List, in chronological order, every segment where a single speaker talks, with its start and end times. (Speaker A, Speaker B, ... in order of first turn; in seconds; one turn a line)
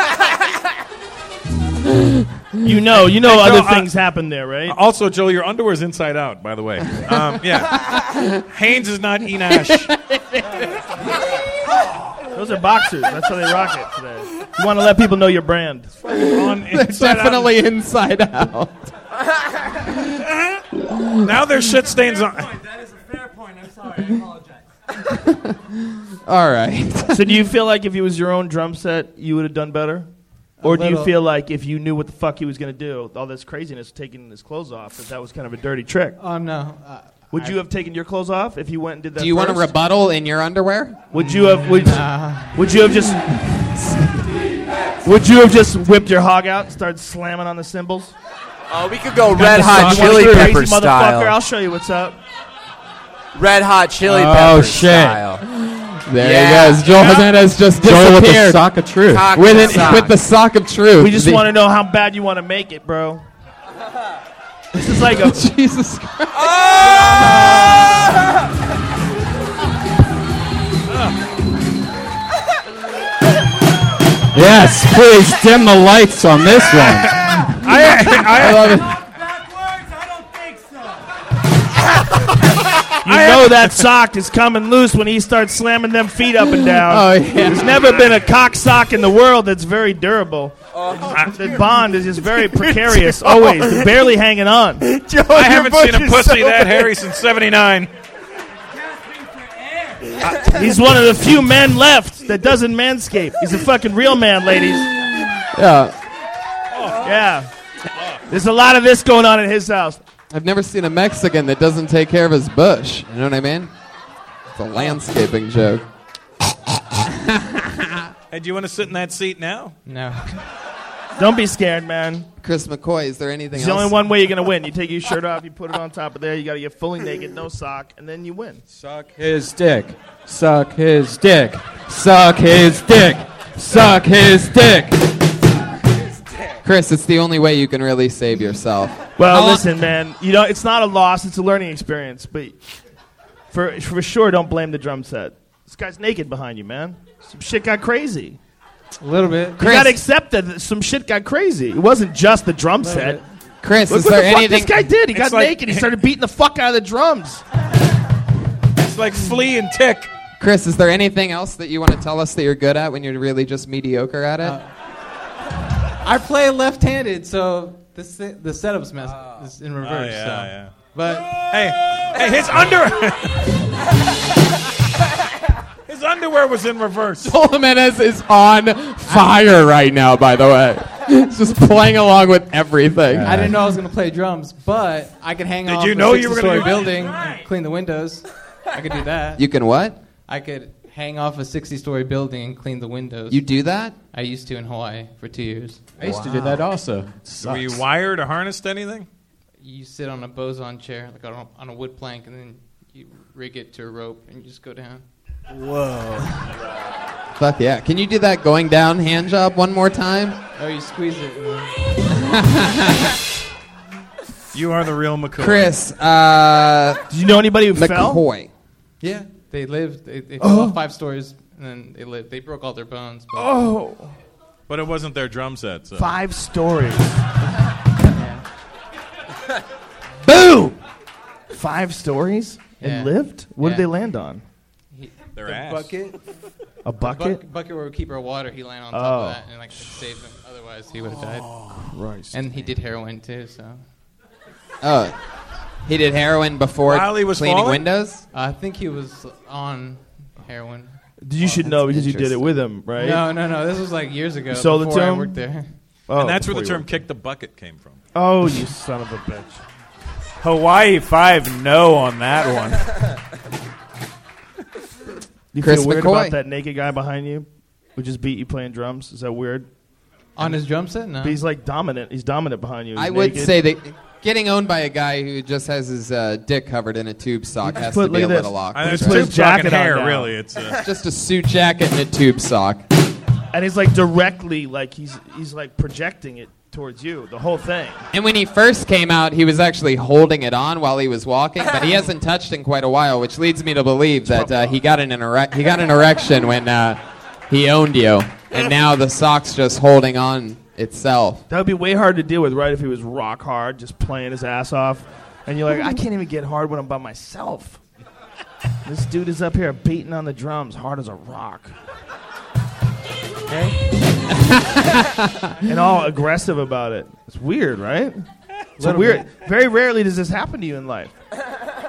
Speaker A: 2.6-4.8
Speaker B: 3.0-3.9
Speaker B: 4.7-9.9
Speaker C: 10.1-10.4
Speaker A: 12.3-15.9
Speaker C: 16.1-18.9
Speaker B: 16.1-17.5
Speaker C: 20.8-21.2
Speaker B: 21.2-22.6
Speaker C: 25.1-27.3
Speaker A: 27.1-30.1
Speaker D: 30.6-31.1
Speaker A: 30.6-36.2
Speaker D: 36.2-37.6
Speaker A: 37.3-39.7
Speaker C: 39.2-41.1
Speaker A: 41.1-43.3
Speaker D: 41.1-42.7
Speaker A: 45.0-48.1
Speaker E: 48.7-51.2
Speaker A: 49.3-52.2
Speaker F: 49.4-50.5
Speaker G: 49.6-50.3
Speaker E: 53.3-55.4
Speaker F: 54.0-55.2
Speaker C: 55.5-58.6
Speaker E: 56.2-57.4
Speaker F: 57.8-59.4
Speaker E: 59.1-60.2
Speaker C: 59.3-61.5
Speaker A: 61.0-63.2
Speaker A: 64.7-65.4
Speaker C: 64.8-67.1
Speaker F: 74.3-77.1
Speaker B: 76.8-78.8
Speaker C: 78.2-79.0
Speaker A: 83.0-90.5
Speaker B: 83.0-83.8
Speaker C: 86.8-87.8
Speaker A: 91.1-94.8
Speaker G: 95.0-96.9
Speaker B: 95.3-97.9
Speaker A: 100.2-105.1
Speaker C: 105.5-105.9
Speaker B: 106.7-107.1
Speaker A: 107.0-107.5
Speaker B: 108.0-108.2
Speaker A: 108.3-110.0
Speaker C: 110.3-113.7
Speaker C: 114.5-115.8
Speaker C: 117.0-118.1
Speaker B: 118.3-119.8
Speaker D: 119.8-120.3
Speaker A: 121.2-122.2
Speaker C: 122.4-123.9
Speaker A: 123.5-128.6
Speaker F: 128.8-134.9
Speaker C: 136.6-139.6
Speaker A: 139.2-142.6
Speaker A: 143.5-148.4
Speaker D: 149.0-149.7
Speaker C: 149.6-149.9
Speaker A: 149.6-153.2
Speaker D: 152.8-153.2
Speaker C: 153.6-154.8
Speaker A: 153.9-157.4
Speaker B: 155.1-155.9
Speaker B: 158.8-160.1
Speaker C: 160.4-164.6
Speaker D: 164.4-164.7
Speaker D: 166.0-171.4
Speaker B: 169.8-170.8
Speaker B: 171.3-173.5
Speaker B: 175.9-177.3
Speaker C: 177.2-183.6
Speaker D: 179.1-179.3
Speaker F: 183.1-183.6
Speaker D: 183.2-189.4
Speaker B: 185.6-187.3
Speaker C: 189.3-190.0
Speaker D: 190.3-193.4
Speaker C: 193.3-193.9
Speaker D: 194.1-195.9
Speaker F: 196.0-197.8
Speaker C: 196.0-196.6
Speaker B: 197.4-199.1
Speaker D: 199.6-205.0
Speaker C: 207.4-210.4
Speaker D: 210.5-211.9
Speaker C: 212.2-213.1
Speaker B: 214.5-215.7
Speaker C: 215.4-217.0
Speaker A: 217.1-218.2
Speaker C: 217.7-218.5
Speaker D: 219.0-223.6
Speaker A: 220.4-220.8
Speaker A: 223.3-224.1
Speaker B: 224.7-226.1
Speaker A: 225.9-227.1
Speaker D: 228.1-228.4
Speaker A: 230.2-230.8
Speaker A: 231.5-234.4
Speaker D: 232.8-233.9
Speaker D: 234.9-236.2
Speaker B: 235.3-236.0
Speaker A: 236.8-237.4
Speaker D: 237.0-241.6
Speaker A: 238.9-239.4
Speaker A: 241.8-242.4
Speaker D: 242.3-243.8
Speaker C: 244.8-245.1
Speaker C: 245.8-248.2
Speaker B: 246.8-247.8
Speaker D: 248.3-252.3
Speaker A: 251.2-253.2
Speaker D: 252.9-255.7
Speaker A: 254.5-255.4
Speaker A: 256.1-256.9
Speaker B: 256.1-258.0
Speaker A: 258.1-259.6
Speaker G: 260.4-262.9
Speaker A: 265.5-269.7
Speaker C: 265.6-266.4
Speaker D: 270.4-271.4
Speaker A: 270.4-273.6
Speaker C: 272.9-279.3
Speaker A: 277.6-280.3
Speaker B: 278.7-280.8
Speaker C: 280.8-282.8
Speaker A: 283.5-288.0
Speaker C: 288.1-301.4
Speaker A: 294.3-294.7
Speaker A: 301.5-307.8
Speaker A: 308.8-311.7
Speaker D: 313.5-313.7
Speaker C: 314.3-315.4
Speaker A: 315.6-318.2
Speaker A: 318.8-321.1
Speaker D: 318.8-319.3